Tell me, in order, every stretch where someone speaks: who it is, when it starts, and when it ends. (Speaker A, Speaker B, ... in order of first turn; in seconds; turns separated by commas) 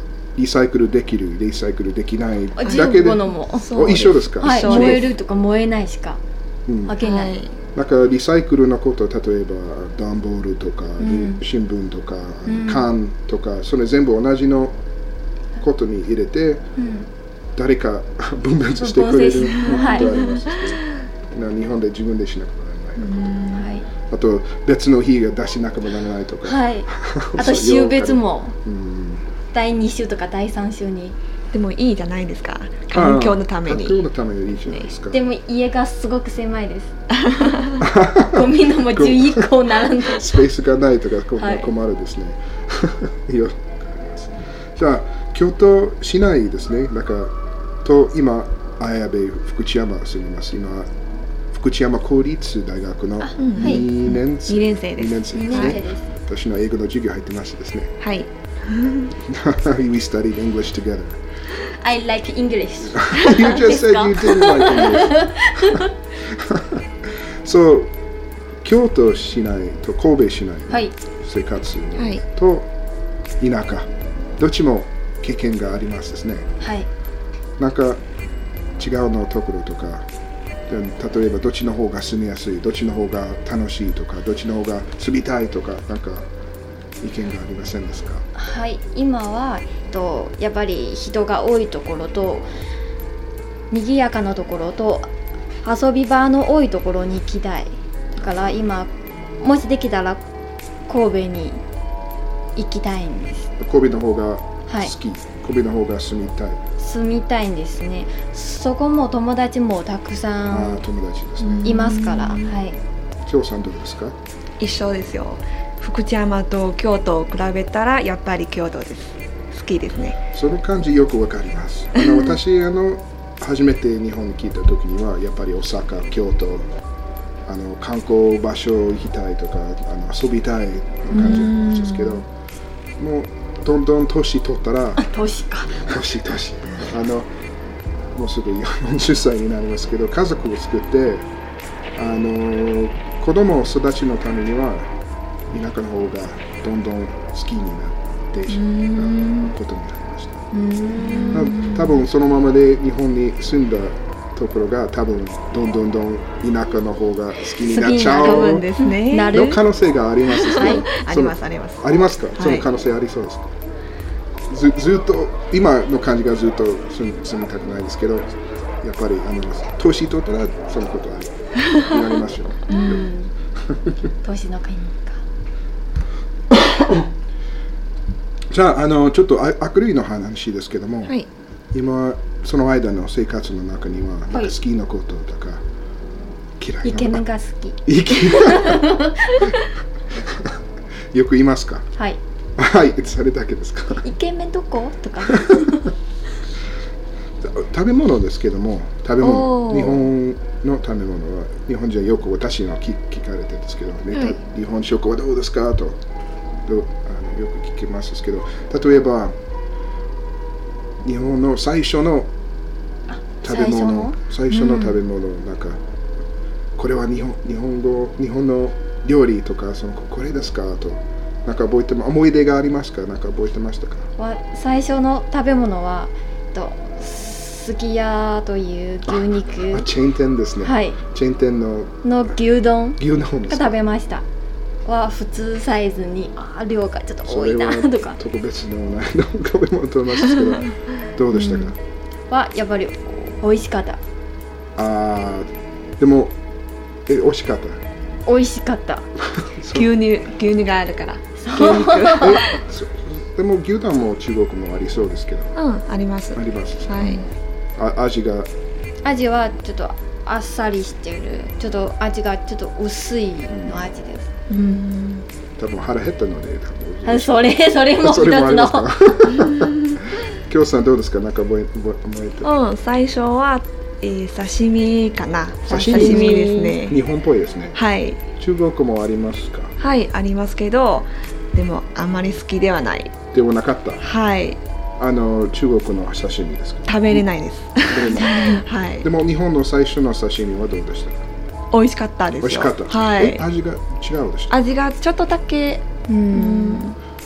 Speaker A: 0.4-5.0, Speaker B: 2.6-3.7, Speaker C: 2.7-5.1, Speaker B: 4.4-6.2, Speaker A: 6.7-7.0, Speaker B: 6.9-7.4, Speaker C: 7.0-7.5, Speaker A: 7.8-14.8, Speaker B: 11.0-11.4, Speaker B: 12.5-12.9, Speaker A: 15.6-16.7, Speaker B: 16.8-17.1, Speaker A: 17.6-23.4, Speaker B: 18.8-20.2, Speaker C: 19.6-20.6, Speaker C: 23.0-23.7, Speaker B: 23.5-23.9, Speaker A: 24.1-29.3, Speaker B: 26.4-28.6, Speaker B: 29.5-31.2, Speaker C: 31.5-34.0, Speaker A: 32.9-35.2, Speaker B: 35.1-36.9, Speaker C: 37.2-37.8, Speaker A: 37.8-50.9, Speaker B: 38.3-40.3, Speaker B: 41.4-41.7, Speaker A: 51.5-57.9, Speaker B: 53.2-53.9, Speaker C: 53.4-55.8, Speaker B: 55.3-56.1, Speaker C: 58.0-59.1, Speaker A: 59.2-61.2, Speaker B: 61.8-65.9, Speaker A: 62.9-67.9, Speaker A: 68.6-72.7, Speaker B: 70.7-71.0, Speaker C: 72.0-72.2, Speaker A: 73.4-76.5, Speaker B: 76.6-76.9, Speaker A: 77.6-78.0, Speaker A: 78.8-80.1, Speaker A: 80.7-86.3, Speaker A: 87.0-88.3, Speaker B: 88.3-92.5, Speaker B: 93.7-95.1, Speaker B: 95.6-100.2, Speaker B: 100.9-101.6, Speaker B: 102.6-103.5, Speaker A: 103.6-106.6, Speaker B: 104.7-104.9, Speaker B: 106.8-110.8, Speaker A: 110.5-111.8, Speaker C: 111.4-112.5, Speaker B: 111.6-112.8, Speaker A: 113.2-114.2, Speaker C: 114.6-120.2, Speaker A: 120.3-126.7, Speaker C: 122.0-122.2, Speaker A: 127.5-132.2, Speaker C: 131.1-132.2, Speaker A: 133.0-135.0, Speaker B: 135.0-135.8, Speaker A: 135.8-137.3, Speaker A: 138.2-141.3, Speaker A: 141.9-144.9, Speaker A: 145.5-150.5, Speaker C: 148.5-149.5, Speaker B: 150.5-151.6, Speaker C: 150.9-152.0, Speaker A: 151.3-158.7, Speaker B: 157.6-159.6, Speaker C: 158.1-159.6, Speaker A: 159.3-163.5, Speaker C: 160.3-162.7, Speaker B: 160.6-160.9, Speaker A: 164.5-173.0, Speaker C: 172.7-173.0, Speaker B: 172.7-173.3, Speaker B: 174.2-175.2, Speaker A: 176.5-177.1, Speaker A: 178.5-181.2, Speaker A: 181.7-185.6, Speaker A: 186.6-187.2, Speaker B: 186.8-189.5, Speaker A: 187.9-189.0, Speaker A: 190.2-190.6, Speaker A: 191.1-191.9, Speaker A: 192.6-194.0, Speaker B: 194.0-195.9, Speaker A: 195.3-195.7, Speaker A: 197.4-206.0, Speaker C: 199.2-200.1, Speaker A: 206.7-209.3, Speaker A: 211.0-212.3, Speaker B: 213.1-214.9, Speaker A: 213.4-215.8, Speaker A: 216.8-224.1, Speaker B: 224.2-229.9, Speaker A: 229.1-232.0, Speaker B: 230.6-231.0, Speaker B: 232.0-234.3, Speaker A: 233.0-233.8, Speaker B: 234.9-238.2, Speaker A: 237.3-241.8, Speaker B: 241.3-241.7, Speaker B: 242.3-244.0, Speaker A: 244.8-246.4, Speaker A: 247.1-247.8, Speaker B: 248.3-249.1, Speaker A: 249.3-249.9, Speaker C: 249.7-252.6, Speaker B: 251.4-252.4, Speaker A: 251.6-255.6, Speaker C: 255.6-257.3, Speaker A: 256.3-258.5, Speaker B: 259.1-264.8, Speaker A: 263.5-263.8, Speaker C: 264.5-265.2, Speaker A: 265.6-272.5, Speaker B: 267.1-268.9, Speaker C: 269.3-270.0, Speaker C: 272.4-277.0, Speaker A: 275.7-277.8, Speaker B: 275.9-276.8, Speaker C: 277.8-278.2, Speaker A: 278.4-279.8, Speaker C: 279.8-283.2, Speaker A: 283.3-284.0, Speaker C: 284.0-284.6, Speaker A: 285.0-287.2, Speaker C: 286.9-289.1, Speaker A: 287.9-288.4, Speaker B: 288.2-288.6, Speaker A: 289.0-291.2, Speaker C: 291.7-293.4, Speaker A: 292.4-294.5, Speaker C: 294.5-297.0, Speaker B: 296.1-296.9